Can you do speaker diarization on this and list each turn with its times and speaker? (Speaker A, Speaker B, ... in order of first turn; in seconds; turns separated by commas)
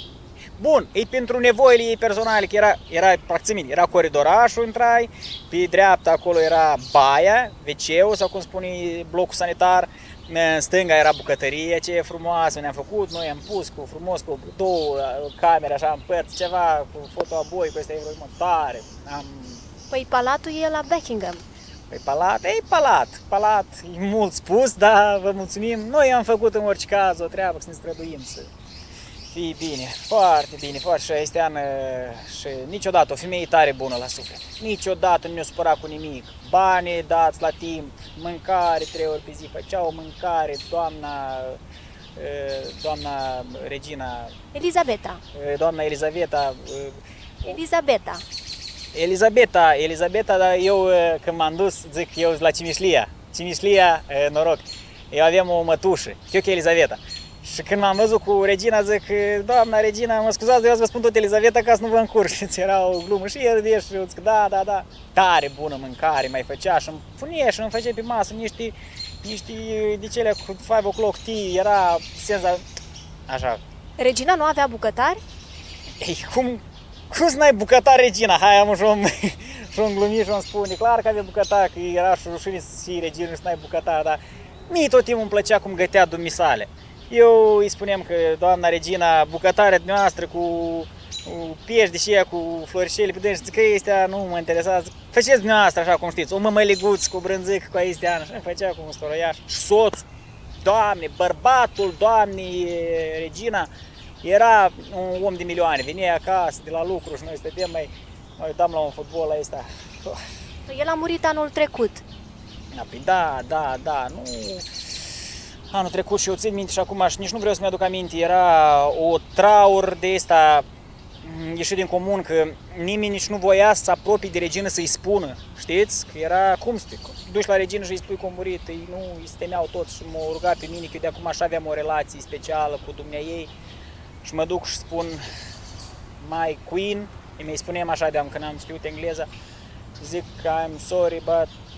Speaker A: 0.6-19.6, Speaker B: 19.9-21.4, Speaker A: 21.9-28.5, Speaker A: 29.3-41.6, Speaker A: 42.1-44.4, Speaker B: 44.5-45.2, Speaker A: 45.3-47.6, Speaker B: 47.5-48.2, Speaker A: 48.9-72.6, Speaker A: 73.3-73.6, Speaker B: 74.0-75.2, Speaker A: 76.0-100.0, Speaker A: 100.6-103.7, Speaker A: 104.2-110.2, Speaker B: 110.7-112.0, Speaker A: 112.7-114.7, Speaker A: 115.7-120.7, Speaker A: 121.2-133.5, Speaker A: 134.2-135.2, Speaker A: 136.2-139.3, Speaker A: 140.0-141.5